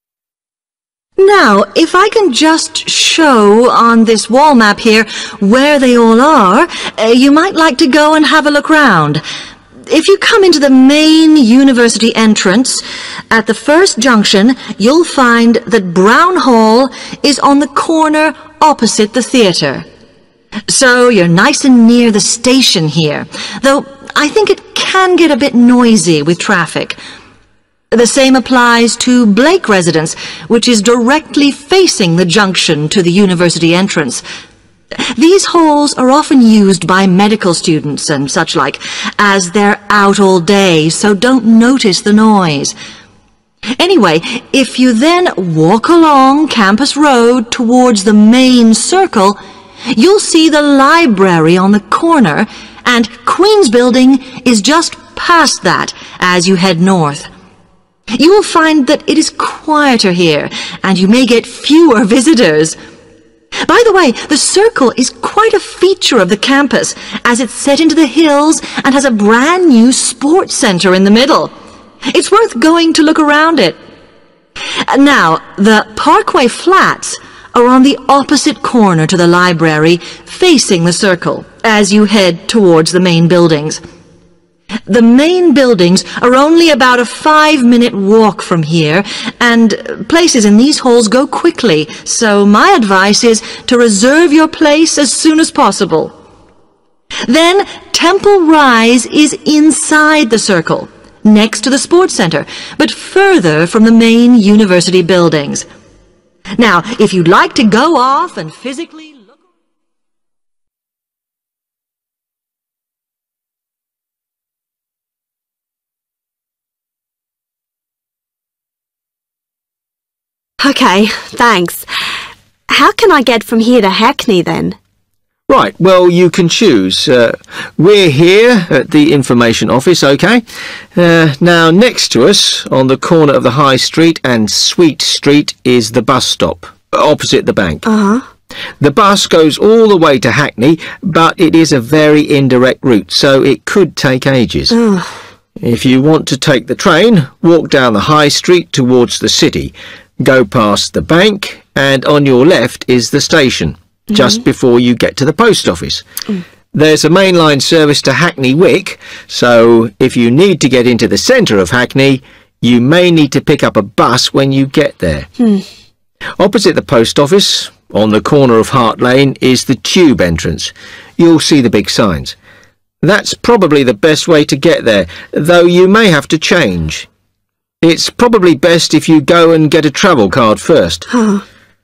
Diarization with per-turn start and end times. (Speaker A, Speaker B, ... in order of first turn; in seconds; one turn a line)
Speaker A: 1.2-9.2
Speaker A: 9.9-19.9
Speaker A: 20.7-27.0
Speaker A: 27.9-34.2
Speaker A: 35.0-42.8
Speaker A: 43.8-57.3
Speaker A: 58.1-62.8
Speaker A: 63.6-71.6
Speaker A: 72.1-73.8
Speaker A: 74.8-83.8
Speaker A: 84.9-96.2
Speaker A: 97.2-105.7
Speaker A: 106.5-109.3
Speaker B: 120.6-121.9
Speaker B: 122.7-124.8
Speaker C: 125.5-130.4
Speaker C: 131.0-137.9
Speaker B: 137.8-138.2
Speaker C: 138.8-144.8
Speaker B: 144.7-145.2
Speaker C: 145.6-156.0
Speaker B: 154.1-154.4
Speaker C: 156.7-165.3
Speaker B: 165.4-165.6
Speaker C: 166.4-172.3
Speaker C: 173.0-177.1
Speaker C: 177.8-181.1
Speaker B: 181.1-181.4